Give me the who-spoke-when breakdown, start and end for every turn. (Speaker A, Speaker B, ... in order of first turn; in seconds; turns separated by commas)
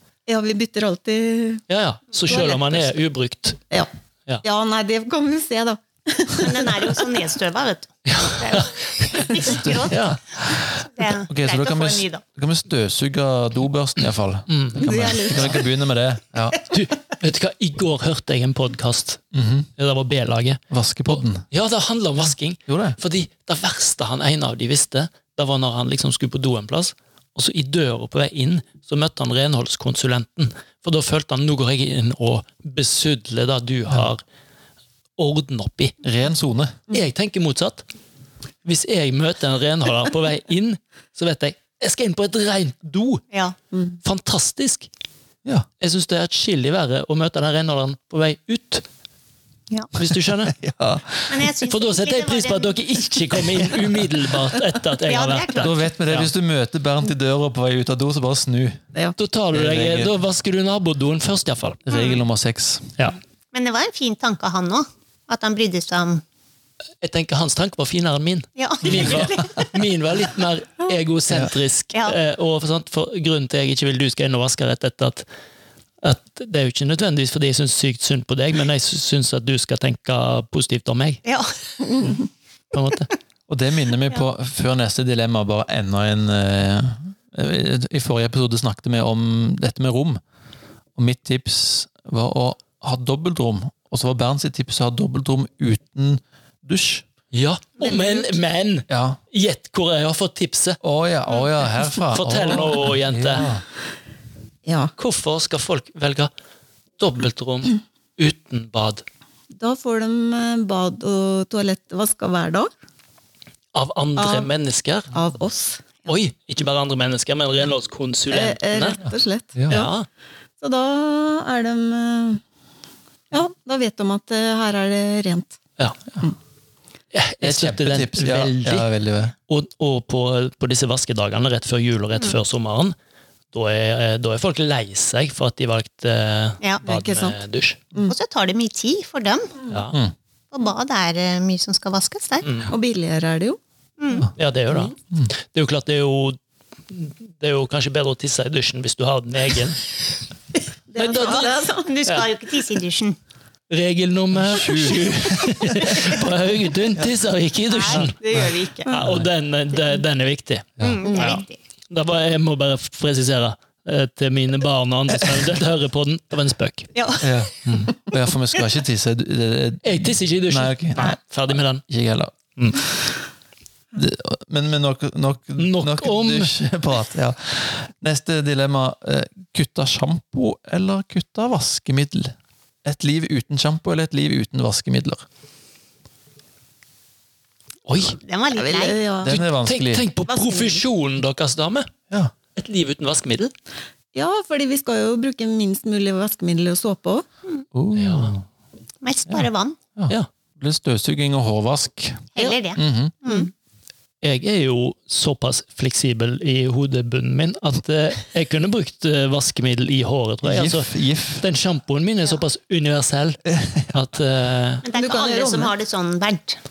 Speaker A: 0.3-1.6, Speaker B: 1.7-3.6, Speaker C: 2.3-2.6, Speaker A: 4.4-7.0, Speaker C: 6.4-10.0, Speaker B: 8.1-10.2, Speaker D: 9.6-16.6, Speaker C: 10.7-12.2, Speaker B: 14.5-15.6, Speaker A: 14.8-15.6, Speaker B: 16.7-19.2, Speaker D: 19.3-19.7, Speaker B: 19.8-34.2, Speaker D: 20.7-21.4, Speaker D: 22.7-23.0, Speaker B: 35.2-35.9, Speaker D: 36.0-36.8, Speaker B: 36.9-37.8, Speaker B: 38.6-43.3, Speaker C: 43.3-43.6, Speaker B: 44.0-44.9, Speaker B: 45.8-48.8, Speaker B: 50.0-50.6, Speaker D: 50.5-51.5, Speaker C: 51.3-52.8, Speaker B: 51.7-56.3, Speaker C: 55.0-55.8, Speaker D: 55.6-58.8, Speaker B: 59.2-61.8, Speaker D: 59.5-60.1, Speaker D: 61.9-63.0, Speaker C: 61.9-62.2, Speaker C: 63.5-66.2, Speaker B: 67.0-75.3, Speaker C: 68.6-69.7, Speaker D: 68.9-69.4, Speaker B: 76.0-81.2, Speaker C: 81.2-81.5, Speaker B: 82.7-83.1, Speaker D: 83.5-90.2, Speaker D: 91.0-97.0, Speaker B: 97.3-100.8, Speaker D: 98.9-99.2, Speaker D: 100.8-103.6, Speaker B: 102.1-103.5, Speaker A: 104.7-104.9, Speaker B: 105.0-106.3, Speaker B: 107.0-109.0, Speaker A: 109.6-112.7, Speaker B: 113.7-115.1, Speaker A: 114.2-114.5, Speaker A: 115.1-116.0, Speaker B: 116.1-119.0, Speaker A: 118.3-119.9, Speaker D: 119.6-119.9, Speaker B: 119.7-120.1, Speaker A: 120.6-122.4, Speaker A: 123.3-125.6, Speaker B: 127.1-128.9, Speaker D: 127.4-129.3, Speaker B: 129.5-132.9, Speaker B: 133.5-137.8, Speaker A: 136.8-137.4, Speaker C: 138.1-139.7, Speaker B: 139.7-140.0, Speaker C: 140.5-142.5, Speaker B: 142.4-142.7, Speaker A: 142.7-143.6, Speaker C: 144.0-144.3, Speaker B: 144.3-146.4, Speaker B: 146.9-149.8, Speaker A: 150.9-151.9, Speaker B: 151.0-152.3, Speaker C: 151.1-153.2, Speaker B: 153.7-166.9, Speaker D: 154.4-156.1, Speaker C: 157.7-158.9, Speaker D: 157.9-158.5, Speaker C: 160.8-161.6, Speaker C: 166.9-167.5, Speaker D: 167.2-171.1, Speaker B: 167.7-167.9, Speaker B: 169.8-171.8, Speaker D: 171.9-172.3, Speaker D: 173.9-182.3, Speaker B: 175.6-176.5, Speaker D: 182.8-185.2, Speaker B: 187.9-188.2, Speaker C: 188.2-189.1, Speaker A: 188.5-189.4, Speaker D: 189.2-190.1, Speaker B: 189.3-191.9, Speaker A: 190.3-190.8, Speaker B: 192.6-193.5, Speaker A: 194.1-197.2, Speaker D: 197.7-198.4, Speaker B: 197.9-198.4, Speaker C: 199.0-199.8, Speaker D: 199.3-203.1, Speaker C: 202.3-203.5, Speaker B: 204.2-214.8, Speaker D: 210.4-211.4, Speaker D: 213.5-213.9, Speaker C: 214.8-216.6, Speaker A: 214.9-215.7